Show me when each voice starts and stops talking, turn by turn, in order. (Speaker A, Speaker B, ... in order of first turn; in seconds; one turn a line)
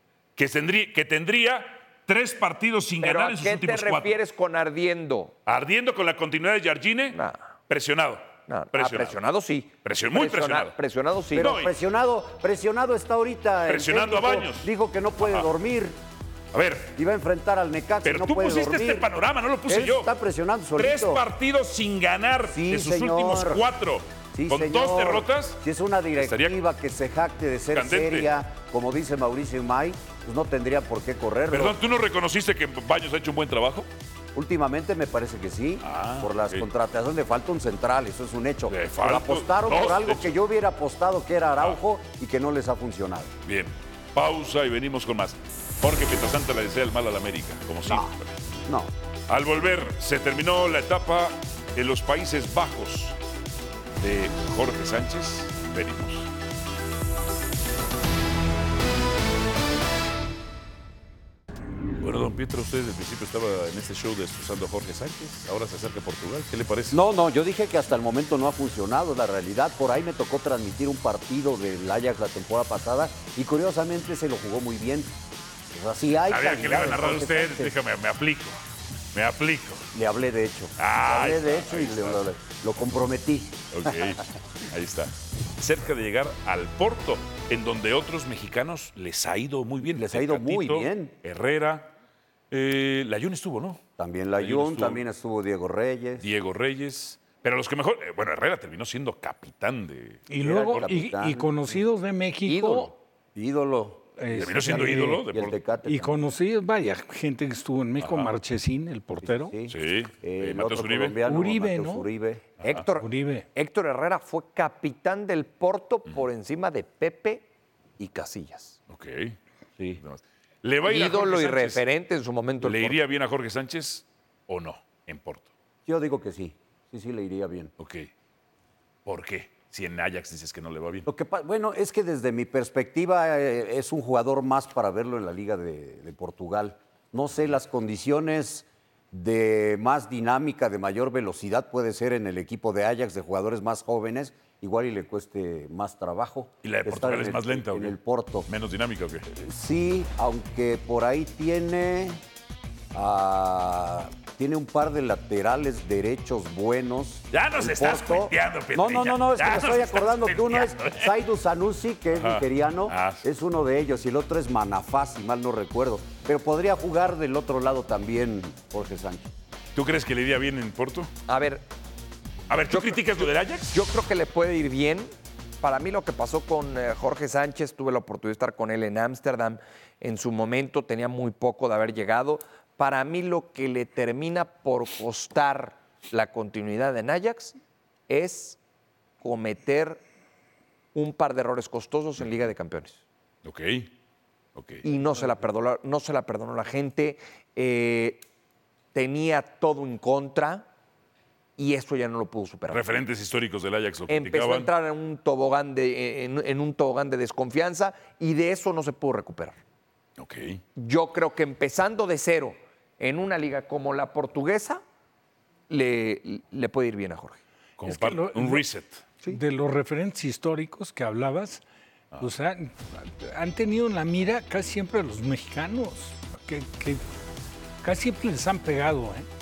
Speaker A: 0.4-4.2
Speaker B: 3.0-5.3
Speaker A: 5.5-7.2
Speaker B: 7.1-7.5
Speaker A: 7.7-9.2
Speaker B: 8.5-11.5
Speaker A: 9.8-10.8
Speaker C: 11.3-16.0
Speaker A: 11.3-11.7
Speaker A: 13.7-14.7
Speaker A: 15.2-15.4
Speaker A: 16.5-16.9
Speaker C: 16.9-19.1
Speaker A: 18.0-20.1
Speaker C: 19.7-21.2
Speaker A: 20.8-25.6
Speaker C: 22.5-23.6
Speaker C: 24.3-31.8
Speaker A: 26.2-26.6
Speaker A: 27.7-28.3
Speaker A: 31.5-33.9
Speaker C: 34.3-43.3
Speaker A: 35.8-36.6
Speaker A: 38.7-40.3
Speaker A: 43.4-48.4
Speaker C: 47.9-48.1
Speaker C: 48.6-48.9
Speaker A: 49.3-53.2
Speaker A: 54.0-56.3
Speaker A: 62.0-67.0
Speaker C: 66.9-75.1
Speaker C: 75.7-77.7
Speaker A: 76.3-78.6
Speaker A: 79.1-79.9
Speaker C: 79.9-84.2
Speaker A: 80.8-82.2
Speaker A: 83.7-91.9
Speaker C: 89.9-91.1
Speaker A: 92.5-93.8
Speaker C: 94.0-96.3
Speaker A: 94.4-95.0
Speaker A: 96.2-100.2
Speaker D: 100.3-102.9
Speaker C: 100.4-101.5
Speaker B: 102.4-102.9
Speaker C: 103.3-104.2
Speaker D: 104.2-105.2
Speaker A: 104.3-105.6
Speaker C: 105.3-106.2
Speaker D: 105.8-109.5
Speaker A: 108.0-108.3
Speaker C: 109.2-112.5
Speaker A: 109.7-111.2
Speaker D: 111.2-112.1
Speaker B: 112.6-117.5
Speaker D: 113.0-113.5
Speaker B: 118.0-118.8
Speaker A: 118.9-119.3
Speaker A: 120.0-121.8
Speaker B: 120.8-123.0
Speaker A: 122.6-125.5
Speaker C: 125.8-127.7
Speaker A: 127.8-128.1
Speaker A: 129.0-131.1
Speaker C: 131.1-148.5
Speaker A: 146.6-147.9
Speaker A: 148.5-149.2
Speaker C: 149.3-152.2
Speaker C: 152.9-169.3
Speaker A: 157.3-161.1
Speaker A: 162.1-163.2
Speaker A: 169.7-171.1
Speaker B: 171.3-171.7
Speaker A: 172.5-173.8
Speaker B: 172.7-173.2
Speaker B: 173.7-187.6
Speaker B: 188.1-188.6
Speaker B: 189.2-190.0
Speaker B: 190.9-193.0
Speaker A: 193.4-193.9
Speaker A: 194.5-194.8
Speaker B: 194.8-198.2
Speaker B: 198.9-200.7
Speaker B: 201.6-203.0
Speaker A: 202.7-204.7
Speaker B: 204.1-209.6
Speaker A: 210.2-210.6
Speaker B: 210.8-214.8
Speaker B: 215.7-217.4
Speaker A: 217.8-219.0
Speaker D: 217.8-218.6
Speaker D: 219.3-221.6
Speaker D: 222.2-227.0
Speaker D: 227.8-229.3